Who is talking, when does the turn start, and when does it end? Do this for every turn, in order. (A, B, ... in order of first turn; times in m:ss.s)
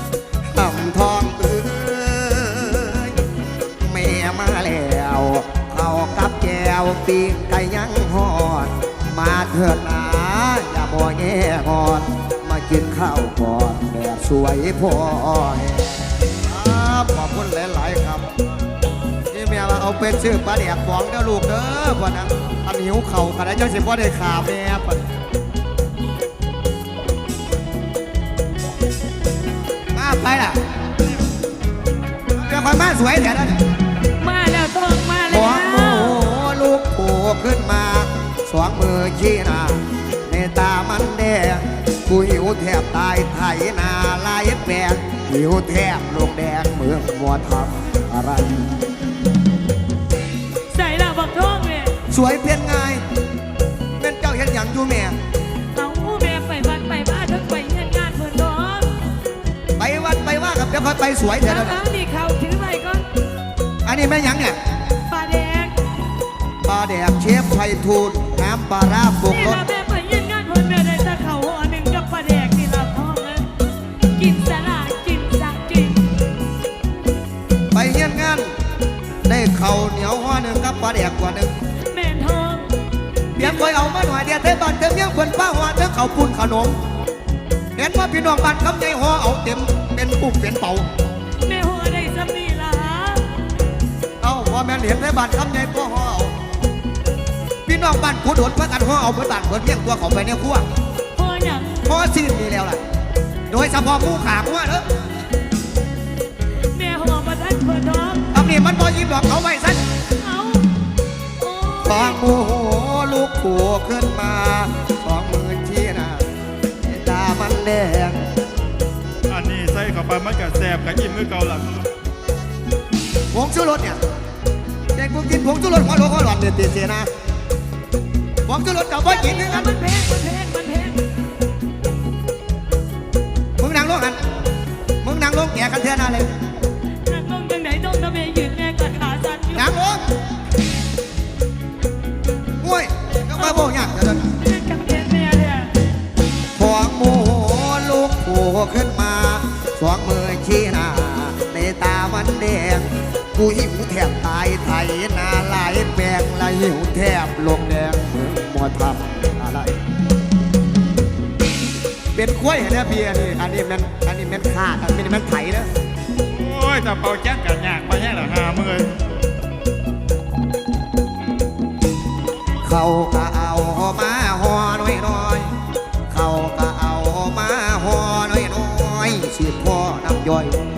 0:00.5-0:03.2 A
0:03.8-0:18.2 A
0:19.3-0:25.0 A
0:29.9-0:30.6 A
0:32.4-0:33.6 A
0:34.2-0:36.2 B
0:35.3-0:48.8 A
0:50.7-0:52.0 B
0:52.1-0:53.0 A
0:54.0-0:55.2 A
0:55.7-0:59.0 B
0:59.8-1:01.8 A
1:01.4-1:03.0 B
1:03.8-1:04.6 A
1:05.1-1:05.8 B
1:06.6-1:09.6 A
1:09.2-1:13.5 B
1:14.1-1:16.0 B
1:17.7-1:18.5 A
1:19.2-1:21.5 A
1:21.9-1:22.7 B
1:23.4-1:23.7 B
1:23.4-1:26.8 A
1:27.8-1:30.9 A
1:31.4-1:33.3 B
1:34.2-1:36.3 A
1:37.6-1:40.6 A
1:41.1-1:41.8 B
1:41.8-1:42.8 A
1:43.5-1:44.8 A
1:46.7-1:48.3 B
1:48.3-1:49.8 A
1:50.2-1:50.7 B
1:51.4-1:52.3 B
1:51.8-1:56.2 A
1:56.8-1:58.3 A
1:59.3-2:01.9 C
2:03.3-2:04.0 A
2:04.9-2:07.1 A
2:08.4-2:09.7 A
2:09.0-2:11.1 B
2:13.6-2:14.2 A
2:15.0-2:16.3 A
2:17.0-2:19.7 B
2:19.5-2:20.0 A
2:22.6-2:24.3 A
2:23.4-2:25.7 B
2:26.5-2:39.8 A
2:42.1-2:45.7 A
2:46.2-2:48.9 C
2:52.6-2:55.5 A
2:56.1-3:00.6 A